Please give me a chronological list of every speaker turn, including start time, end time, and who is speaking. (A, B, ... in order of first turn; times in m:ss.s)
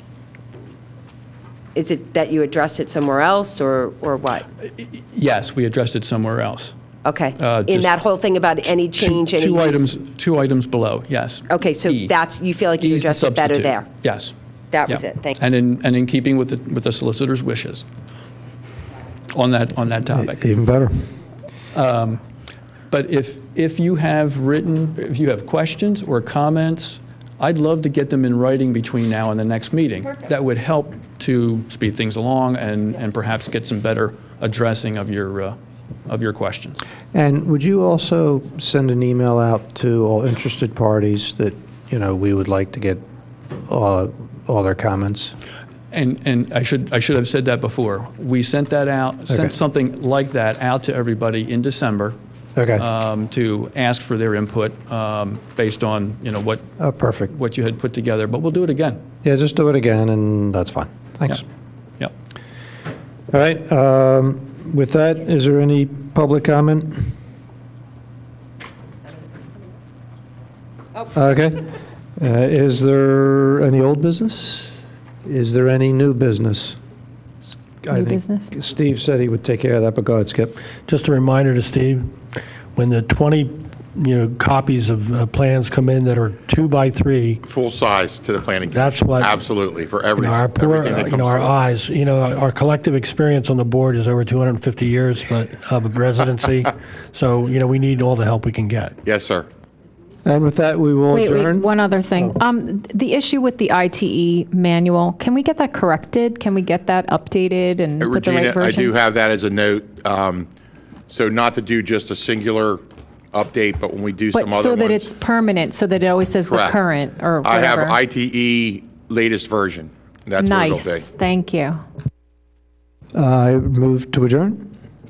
0:01.7-0:04.4 A
0:04.6-0:06.7 B
0:07.0-0:09.9 A
0:07.4-0:07.9 B
0:08.9-0:12.1 B
0:11.5-0:13.9 A
0:12.8-0:14.3 B
0:14.7-0:15.4 A
0:14.9-0:17.8 B
0:19.3-0:20.4 B
0:20.2-0:21.1 C
0:21.7-0:22.2 B
0:22.9-0:36.8 B
0:37.1-0:43.0 C
0:43.6-0:45.3 C
0:45.9-0:52.2 B
0:52.6-0:52.9 C
0:52.8-0:56.6 B
0:56.8-0:57.3 C
0:57.3-0:59.0 B
0:59.2-1:01.4 C
1:03.3-1:07.1 C
1:11.1-1:16.8 C
1:17.8-1:20.6 C
1:17.9-1:18.5 D
1:20.8-1:22.1 E
1:22.7-1:27.4 E
1:27.4-1:31.6 F
1:28.7-1:29.4 E
1:30.2-1:39.0 E
1:39.0-1:39.5 F
1:40.2-1:42.3 C
1:41.1-1:49.0 D
1:48.0-1:50.5 F
1:51.1-1:52.8 F
1:53.3-1:55.1 F
1:54.3-1:58.0 D
1:56.4-1:56.8 F
1:57.4-2:01.1 F
2:00.4-2:01.8 D
2:03.1-2:04.7 C